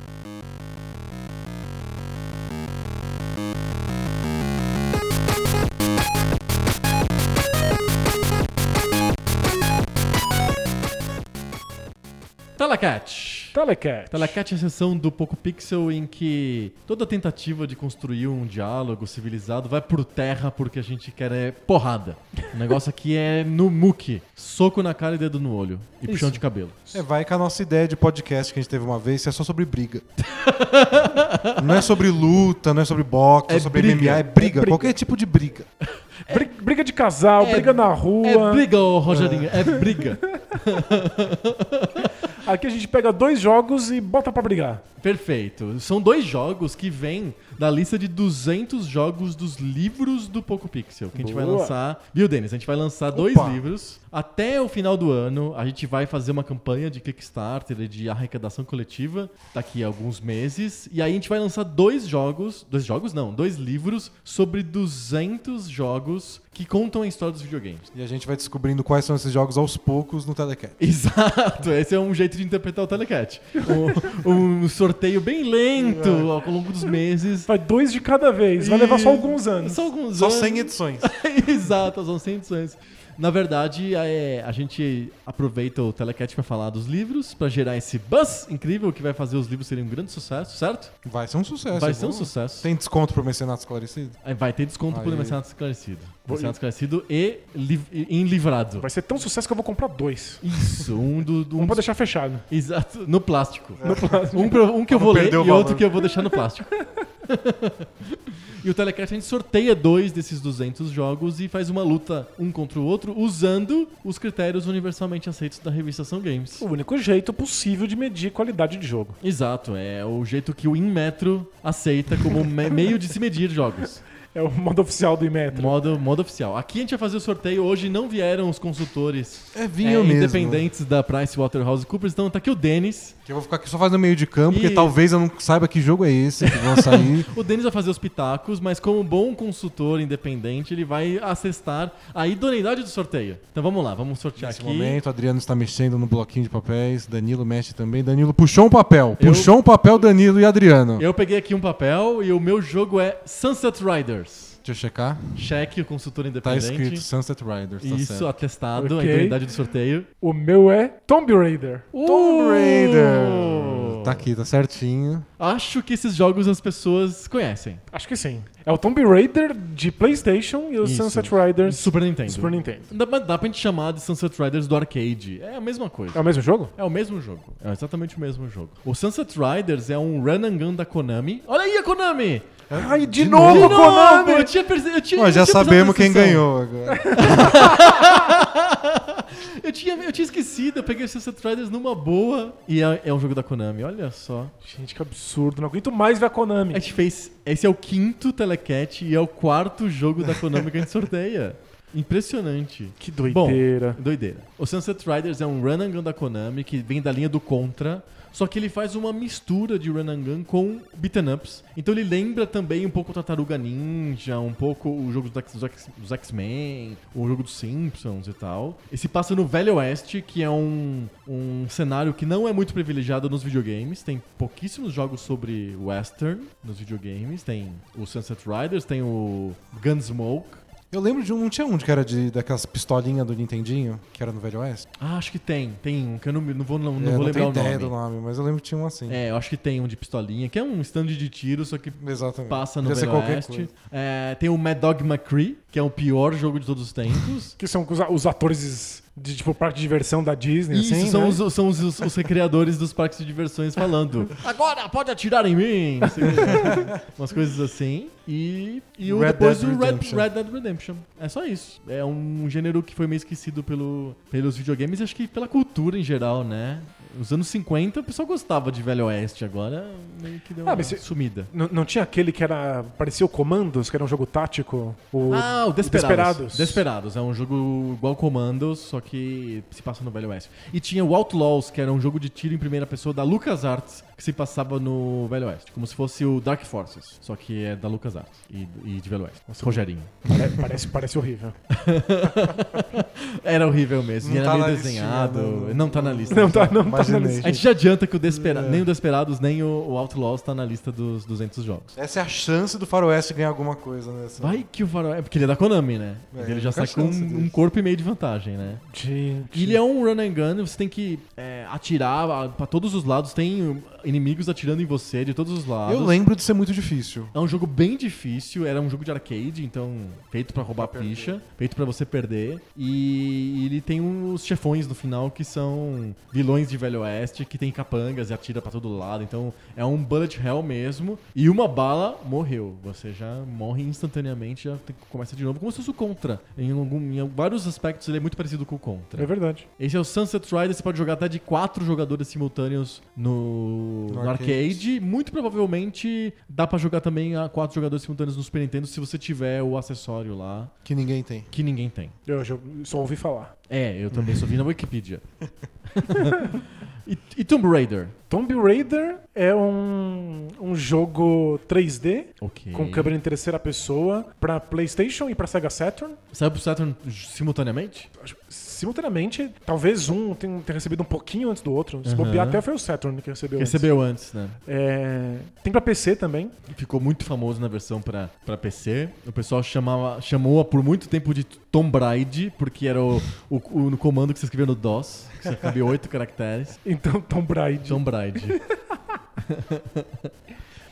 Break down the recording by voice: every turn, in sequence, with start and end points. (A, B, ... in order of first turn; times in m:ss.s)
0:12.6-0:13.6 A
0:13.5-0:14.4 B
0:14.1-0:26.8 A
0:26.1-0:26.4 B
0:26.9-0:30.0 C
0:30.2-0:31.9 A
0:31.6-0:35.7 C
0:33.5-0:34.6 A
0:34.4-0:34.9 B
0:36.3-0:38.7 B
0:37.4-0:42.1 A
0:39.1-0:39.8 C
0:40.0-0:40.6 B
0:42.0-0:44.8 B
0:45.0-1:07.9 A
0:51.1-0:51.7 B
0:53.1-0:53.6 C
1:07.9-1:10.8 C
1:10.8-1:17.5 A
1:15.8-1:16.3 C
1:17.5-1:19.9 B
1:18.6-1:30.9 A
1:20.2-1:21.1 C
1:31.0-1:34.2 C
1:31.7-1:32.7 A
1:34.2-1:38.9 A
1:34.9-1:35.4 C
1:36.3-1:36.6 B
1:38.8-1:40.8 B
1:40.4-1:41.8 A
1:41.6-1:42.4 B
1:42.5-1:56.6 A
1:43.8-1:44.3 C
1:43.8-1:44.6 B
1:44.9-1:46.0 C
1:56.6-1:59.2 B
1:59.2-2:04.0 A
2:04.3-2:05.8 B
2:05.5-2:13.2 A
2:09.5-2:10.7 C
2:13.3-2:17.3 C
2:14.5-2:15.0 A
2:16.4-2:25.0 A
2:24.4-2:31.0 C
2:29.2-2:29.6 A
2:31.0-2:34.6 A
2:34.6-2:35.5 C
2:35.4-2:37.0 A
2:36.4-2:38.3 C
2:37.8-2:40.1 A
2:38.8-2:39.4 B
2:40.2-2:41.9 B
2:41.9-2:44.3 A
2:42.0-2:45.3 C
2:45.4-2:47.8 A
2:47.9-2:52.9 B
2:50.8-2:56.2 A
2:56.1-2:56.7 B
2:56.8-3:02.6 A
3:02.7-3:04.1 C
3:02.7-3:04.5 B
3:03.4-3:06.5 A
3:05.2-3:07.6 C
3:06.9-3:08.0 B
3:07.2-3:14.5 A
3:14.6-3:16.8 B
3:16.7-3:50.6 A
3:23.0-3:24.0 B
3:50.9-3:54.9 C
3:55.0-3:57.9 A
3:57.0-3:59.2 C
3:59.1-4:07.6 A
4:02.0-4:03.7 C
4:07.6-4:11.4 B
4:10.7-4:31.5 A
4:16.2-4:16.7 B
4:16.5-4:17.0 C
4:19.0-4:20.3 C
4:30.6-4:36.8 B
4:35.3-4:50.3 A
4:49.5-4:51.6 B
4:51.7-4:56.8 A
4:54.2-4:57.6 C
4:56.3-4:57.6 B
4:57.4-5:01.9 A
4:58.3-4:58.9 C
5:02.0-5:04.6 C
5:04.4-5:08.8 A
5:06.3-5:07.6 C
5:08.9-5:09.8 B
5:09.5-5:16.2 A
5:15.9-5:17.3 C
5:17.3-5:50.7 A
5:20.8-5:21.4 C
5:39.2-5:39.7 B
5:44.1-5:44.8 C
5:50.8-5:51.5 C
5:51.5-5:52.2 A
5:52.3-5:53.6 B
5:53.7-5:55.2 A
5:54.1-5:54.4 C
5:55.9-5:58.2 A
5:56.1-5:56.6 B
5:58.3-6:06.2 B
6:02.4-6:03.1 A
6:06.3-6:08.1 A
6:08.2-6:13.9 B
6:12.0-6:12.6 A
6:13.6-6:14.6 A
6:14.7-6:16.5 B
6:16.7-6:26.8 A
6:26.8-6:28.8 B
6:27.9-6:28.6 A
6:29.4-6:30.3 A